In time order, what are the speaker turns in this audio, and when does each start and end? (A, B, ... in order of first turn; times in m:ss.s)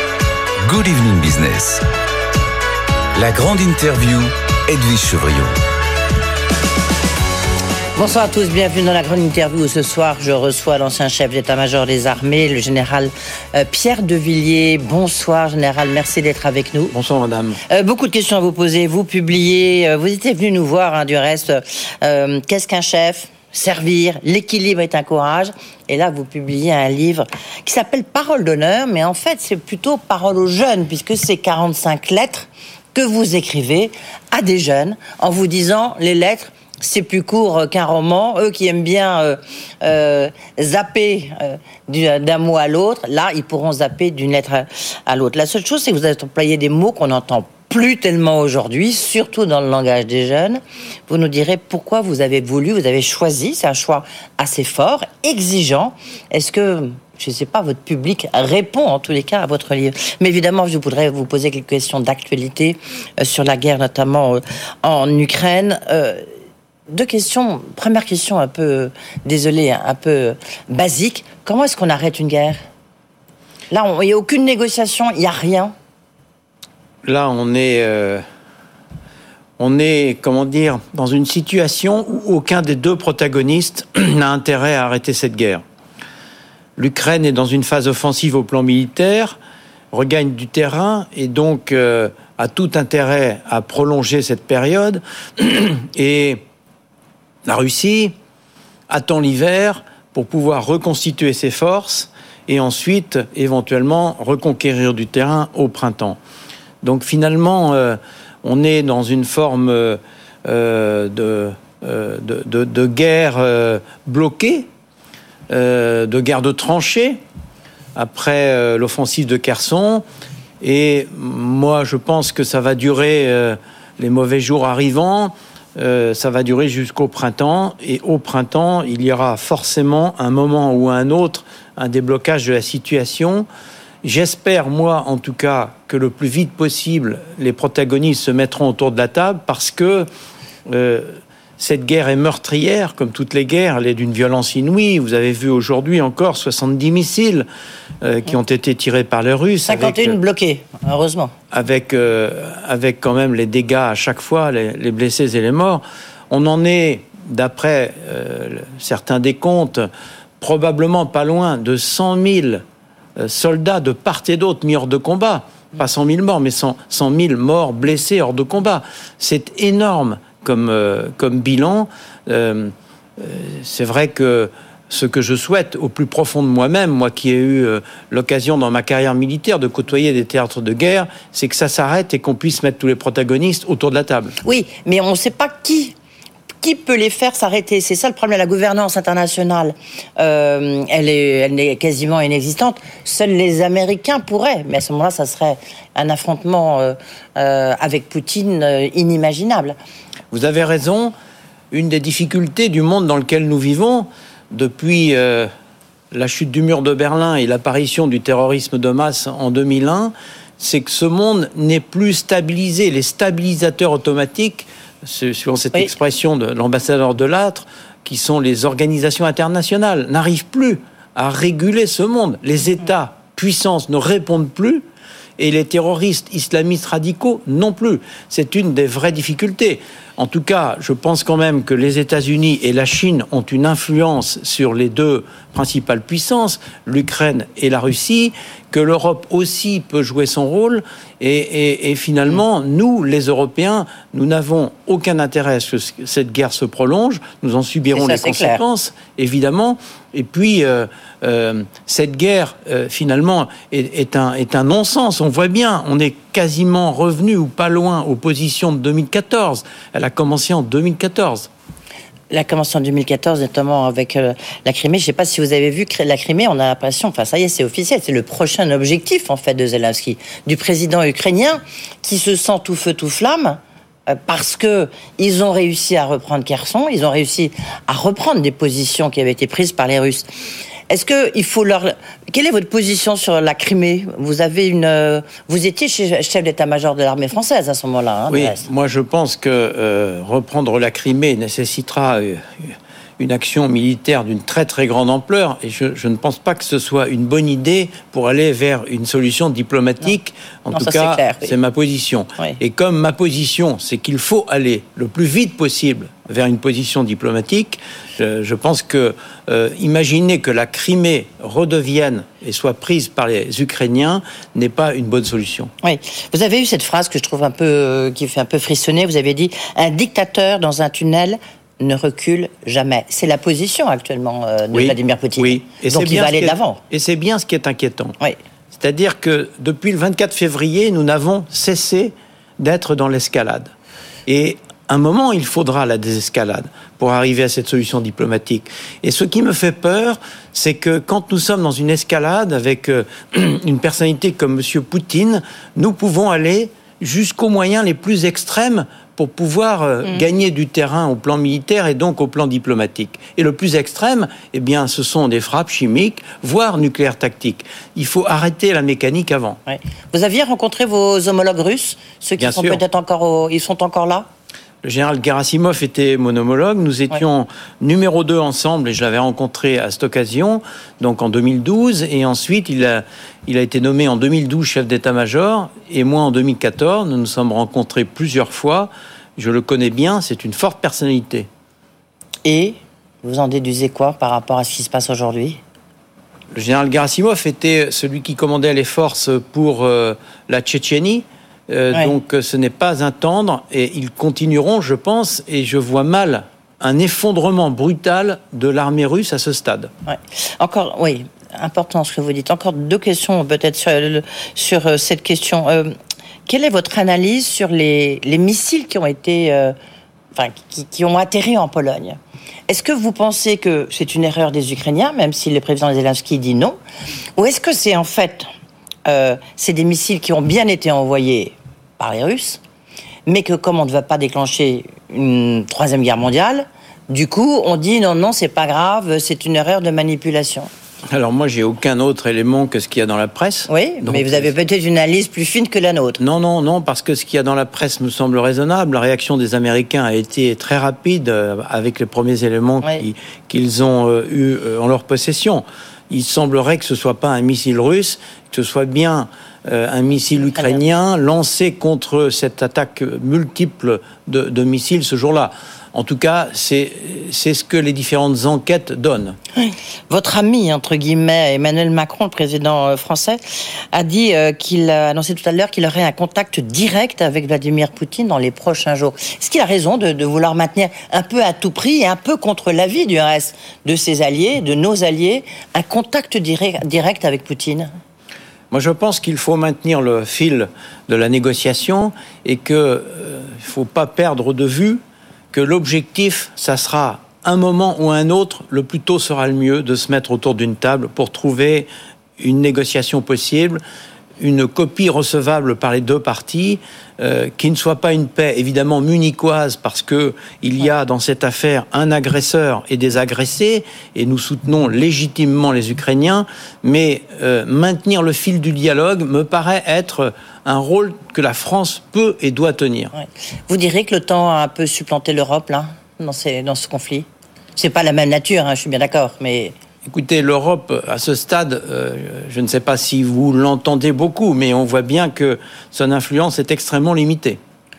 0:00.6-0:01.8 A
0:03.1-0:05.6 A
0:07.9-0:16.9 B
0:16.9-0:17.6 C
0:17.7-1:06.2 B
1:06.9-1:12.6 B
1:13.7-1:15.7 B
1:17.0-1:18.2 C
1:19.6-1:25.6 C
1:26.8-1:29.4 C
1:29.9-1:36.4 C
1:37.4-1:38.1 C
1:38.9-1:46.2 C
1:46.8-1:54.7 C
1:55.5-1:57.2 C
1:57.9-2:00.0 C
2:00.6-2:13.4 C
2:14.0-2:20.1 C
2:20.7-2:27.5 C
2:28.0-2:30.2 C
2:29.6-2:31.3 B
2:31.5-2:39.9 C
2:40.4-2:42.6 C
2:43.2-3:04.4 C
3:04.4-3:05.9 B
3:06.6-3:19.8 B
3:20.3-3:21.1 C
3:21.7-3:25.5 C
3:26.1-3:44.8 C
3:45.4-4:21.5 C
4:07.9-4:08.6 B
4:22.3-4:40.3 B
4:40.9-4:48.7 B
4:48.3-5:15.7 C
5:00.7-5:01.5 B
5:15.8-5:26.8 B
5:24.7-5:28.2 C
5:28.7-5:33.7 C
5:34.2-5:59.6 C
5:59.7-6:04.3 B
6:02.4-6:02.8 C
6:04.8-6:21.5 C
6:22.4-6:25.6 B
6:26.5-6:39.9 C
6:40.0-6:45.9 B
6:46.5-6:49.7 B
6:50.3-6:56.8 B
6:57.4-6:58.5 B
6:59.0-7:02.6 B
7:03.3-7:10.7 B
7:11.1-7:14.5 C
7:13.7-7:16.2 B
7:16.2-7:39.4 C
7:39.6-7:43.4 B
7:43.9-7:57.9 B
7:58.7-8:05.0 C
8:05.5-8:13.8 C
8:14.4-8:33.1 C
8:33.2-8:39.7 B
8:40.0-8:47.6 C